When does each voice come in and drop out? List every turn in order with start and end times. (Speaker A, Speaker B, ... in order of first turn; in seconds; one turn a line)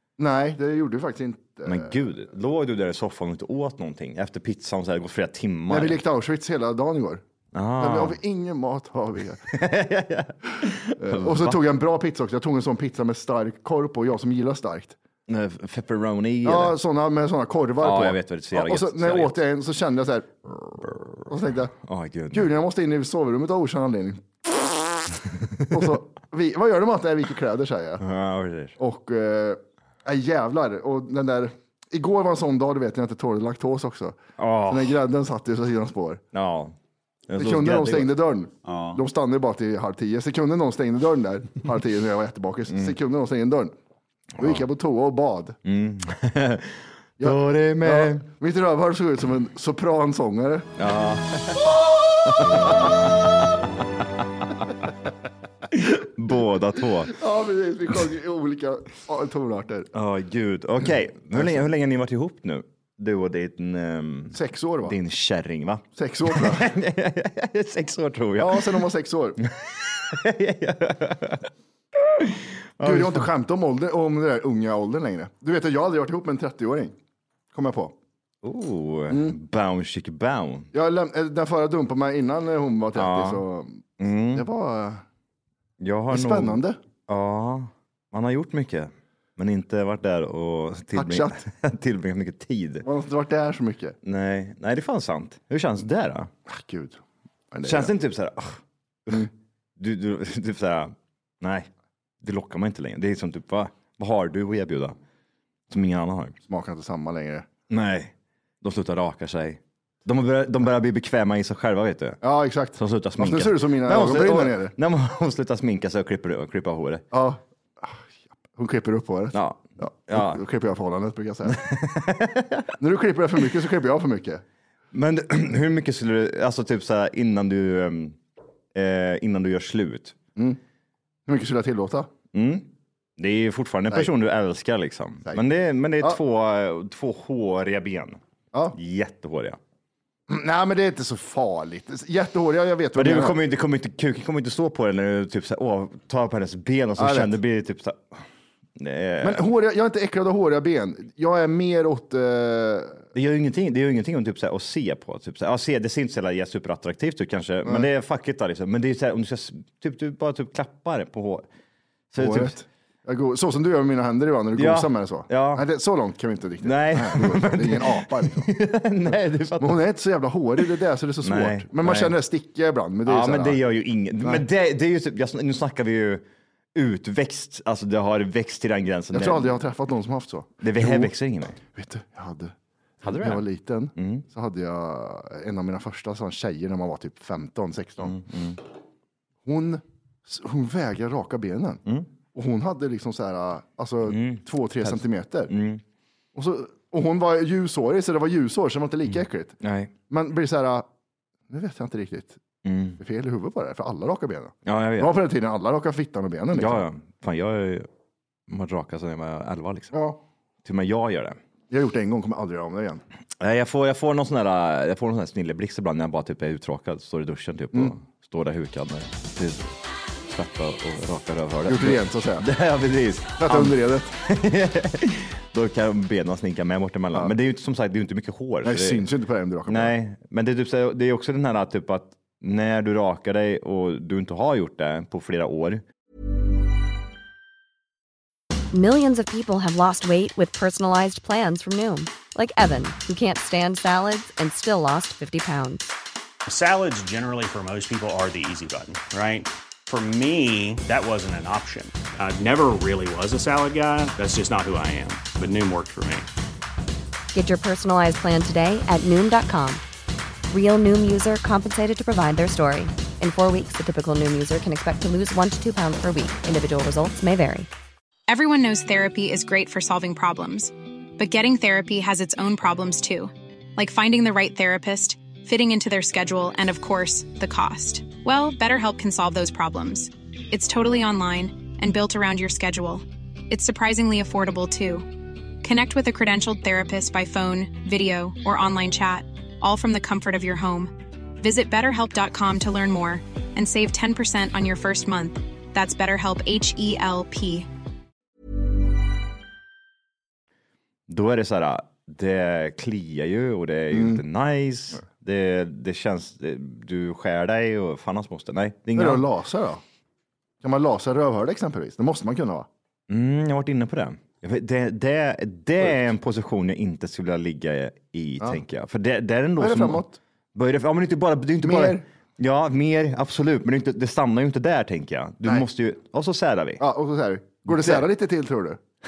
Speaker A: 0.2-2.0
Speaker B: 1.6-6.0
Speaker A: 5.7-7.2
Speaker B: 7.5-8.2
Speaker A: 7.8-9.4
Speaker B: 9.5-11.6
Speaker A: 11.0-14.9
Speaker B: 15.3-16.8
Speaker A: 16.4-21.7
Speaker B: 17.8-19.3
Speaker B: 21.8-22.5
Speaker A: 22.3-25.0
Speaker A: 25.7-28.0
Speaker B: 28.0-28.7
Speaker A: 28.8-36.2
Speaker B: 34.4-35.0
Speaker B: 36.3-36.8
Speaker B: 37.3-38.1
Speaker A: 37.4-43.7
Speaker B: 38.7-39.0
Speaker A: 44.4-45.6
Speaker B: 45.6-48.2
Speaker A: 47.2-50.7
Speaker B: 50.8-53.6
Speaker B: 55.7-57.1
Speaker A: 57.1-59.9
Speaker B: 59.9-68.8
Speaker A: 64.3-65.0
Speaker A: 66.0-66.7
Speaker A: 68.4-69.4
Speaker B: 69.4-71.4
Speaker B: 72.0-73.3
Speaker A: 72.8-76.9
Speaker A: 77.5-77.9
Speaker B: 78.4-80.7
Speaker A: 79.1-79.3
Speaker A: 80.7-85.0
Speaker B: 82.9-83.4
Speaker B: 84.0-84.4
Speaker B: 85.8-92.8
Speaker A: 86.1-86.8
Speaker A: 90.9-91.4
Speaker A: 92.8-94.0
Speaker B: 94.0-96.3
Speaker A: 96.5-97.0
Speaker A: 97.5-97.9
Speaker B: 97.6-101.7
Speaker B: 102.2-105.0
Speaker B: 105.7-106.4
Speaker A: 106.5-107.5
Speaker B: 107.7-112.2
Speaker A: 112.2-114.7
Speaker B: 112.8-117.0
Speaker A: 117.1-121.6
Speaker B: 119.3-120.4
Speaker B: 121.4-122.7
Speaker A: 122.8-124.4
Speaker B: 124.9-128.2
Speaker B: 128.7-130.2
Speaker A: 131.3-132.1
Speaker B: 132.3-138.2
Speaker B: 138.7-139.6
Speaker A: 140.3-143.4
Speaker B: 142.9-148.2
Speaker A: 147.0-147.3
Speaker B: 148.8-149.4
Speaker A: 149.2-153.0
Speaker B: 153.1-161.5
Speaker B: 162.1-162.6
Speaker A: 162.2-168.5
Speaker B: 164.5-165.6
Speaker B: 166.6-169.8
Speaker A: 169.6-173.6
Speaker B: 171.2-172.1
Speaker B: 173.1-179.5
Speaker A: 179.1-181.1
Speaker B: 180.6-181.6
Speaker A: 181.7-182.5
Speaker B: 183.0-183.4
Speaker A: 183.1-188.2
Speaker B: 183.9-184.2
Speaker B: 188.0-188.6
Speaker A: 189.4-191.8
Speaker A: 192.3-195.5
Speaker B: 194.1-195.8
Speaker A: 196.3-199.6
Speaker B: 199.6-199.9
Speaker A: 200.1-200.8
Speaker A: 201.5-202.4
Speaker B: 202.6-203.0
Speaker A: 203.0-206.8
Speaker B: 204.6-205.1
Speaker B: 206.5-207.9
Speaker B: 208.5-209.9
Speaker A: 209.9-210.2
Speaker B: 210.6-211.4
Speaker A: 211.7-213.0
Speaker B: 213.4-219.7
Speaker B: 220.3-229.1
Speaker A: 221.7-222.4
Speaker A: 223.4-224.1
Speaker A: 228.6-229.9
Speaker B: 229.7-235.8
Speaker C: 238.7-245.9
Speaker D: 246.4-256.3
Speaker C: 257.3-259.8
Speaker C: 260.5-267.7
Speaker E: 268.3-285.1
Speaker E: 285.6-297.7
Speaker B: 301.1-309.2
Speaker A: 303.9-304.2
Speaker A: 308.9-309.8
Speaker A: 310.6-312.7
Speaker B: 313.1-320.0
Speaker A: 319.6-320.2
Speaker B: 320.5-326.8
Speaker A: 321.6-322.0
Speaker A: 326.8-328.8
Speaker B: 327.7-328.0